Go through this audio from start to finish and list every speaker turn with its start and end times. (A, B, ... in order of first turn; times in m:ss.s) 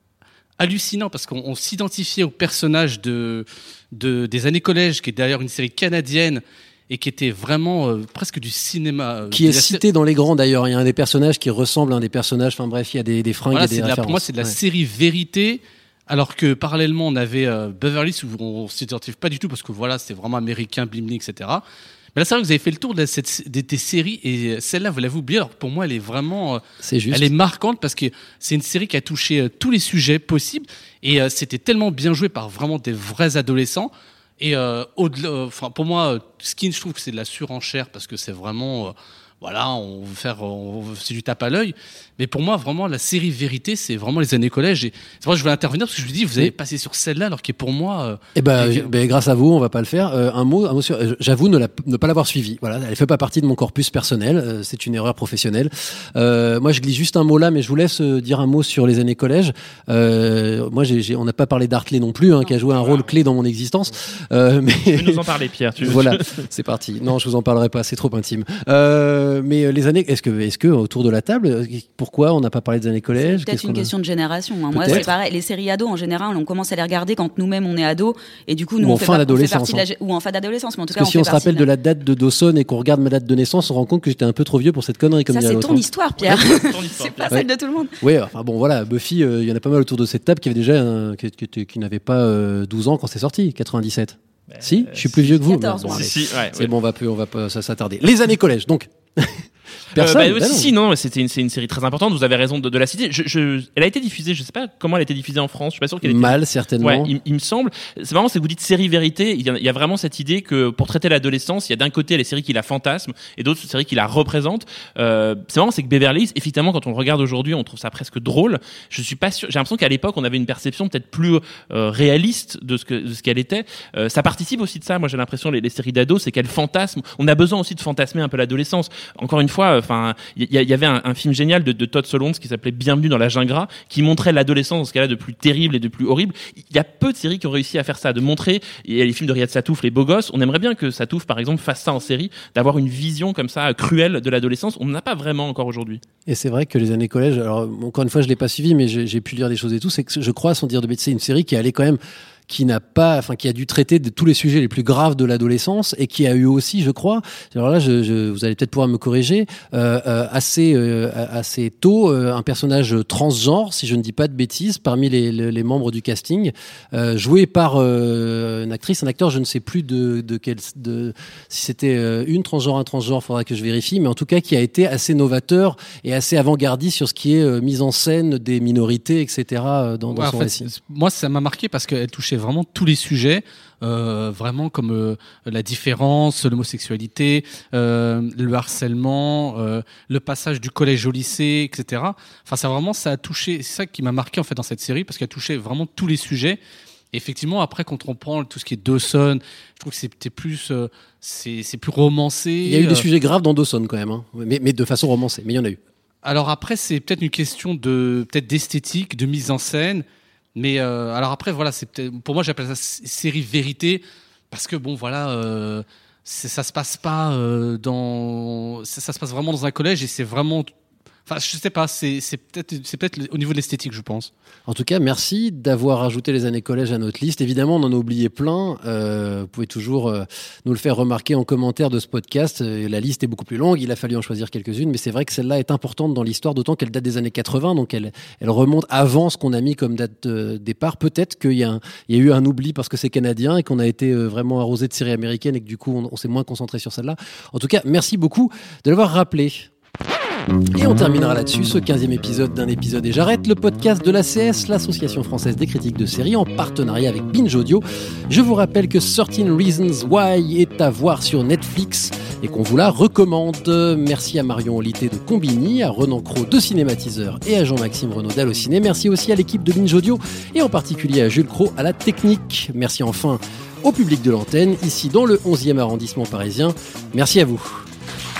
0:00.6-0:09.8 A
0:09.3-0:14.6 B
0:13.5-0:21.6 A
0:22.1-0:48.9 A
0:26.8-0:27.3 B
0:48.3-1:05.2 B
1:04.9-1:06.4 C
1:05.8-1:13.9 B
1:13.2-1:21.7 D
1:14.7-1:15.1 B
1:18.8-1:19.8 B
1:20.9-1:25.8 B
1:25.3-1:28.0 D
1:26.2-1:27.4 C
1:28.0-1:40.7 B
1:34.5-1:36.7 C
1:35.4-1:36.1 D
1:40.0-2:26.0 C
1:46.0-1:47.1 B
2:26.3-3:00.7 B
3:00.1-3:16.6 A
3:17.1-3:23.0 A
3:22.6-3:25.8 B
3:26.2-3:30.0 A
3:30.6-3:40.7 A
3:41.3-3:44.3 A
3:44.7-4:09.7 B
4:10.7-4:37.8 B